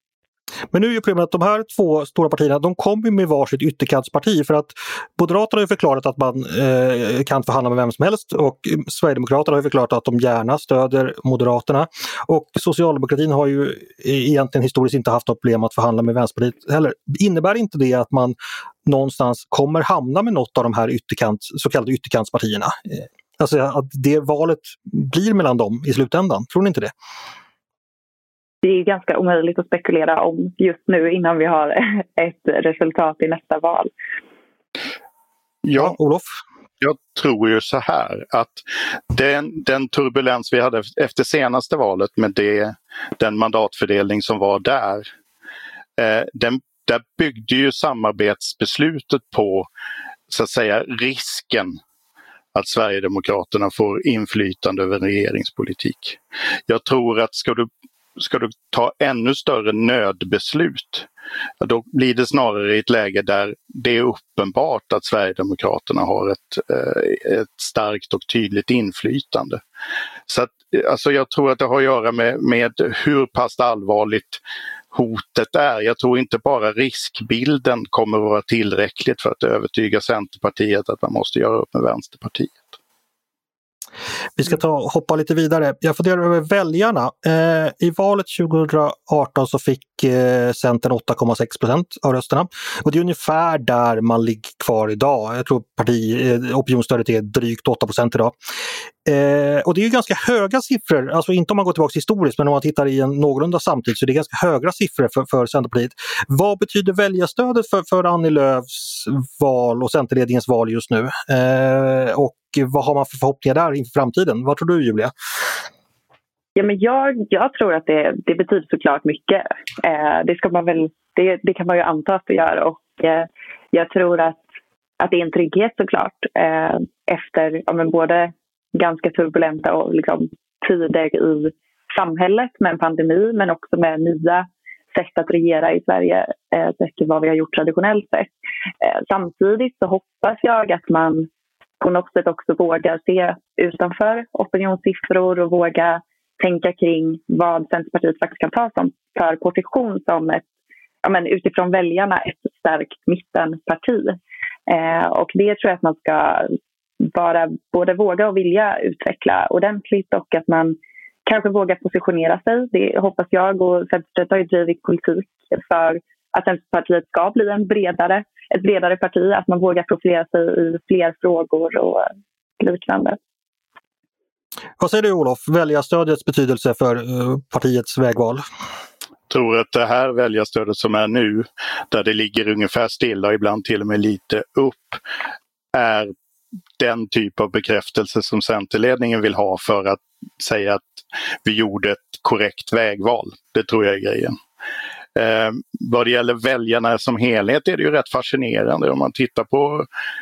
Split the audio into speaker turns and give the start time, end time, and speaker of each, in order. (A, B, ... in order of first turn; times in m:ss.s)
0:00.7-0:26.9 A
0:28.6-0:33.9 B
0:35.6-0:36.0 C
0:35.8-0:36.3 A
0:36.8-0:45.0 C
0:46.0-0:49.7 C
0:50.3-0:51.8 C
0:52.5-1:01.1 C
1:01.6-1:09.6 C
1:10.3-1:14.4 C
1:14.9-1:22.8 C
1:24.4-1:38.3 A
1:39.0-1:55.1 A
1:56.6-2:04.4 B
2:05.0-2:21.3 B
2:21.8-2:30.4 B
2:31.0-2:53.2 B
2:54.8-2:58.4 A
2:59.3-3:05.0 C
3:05.7-3:06.1 C
3:06.8-3:14.4 C
3:15.1-3:19.9 C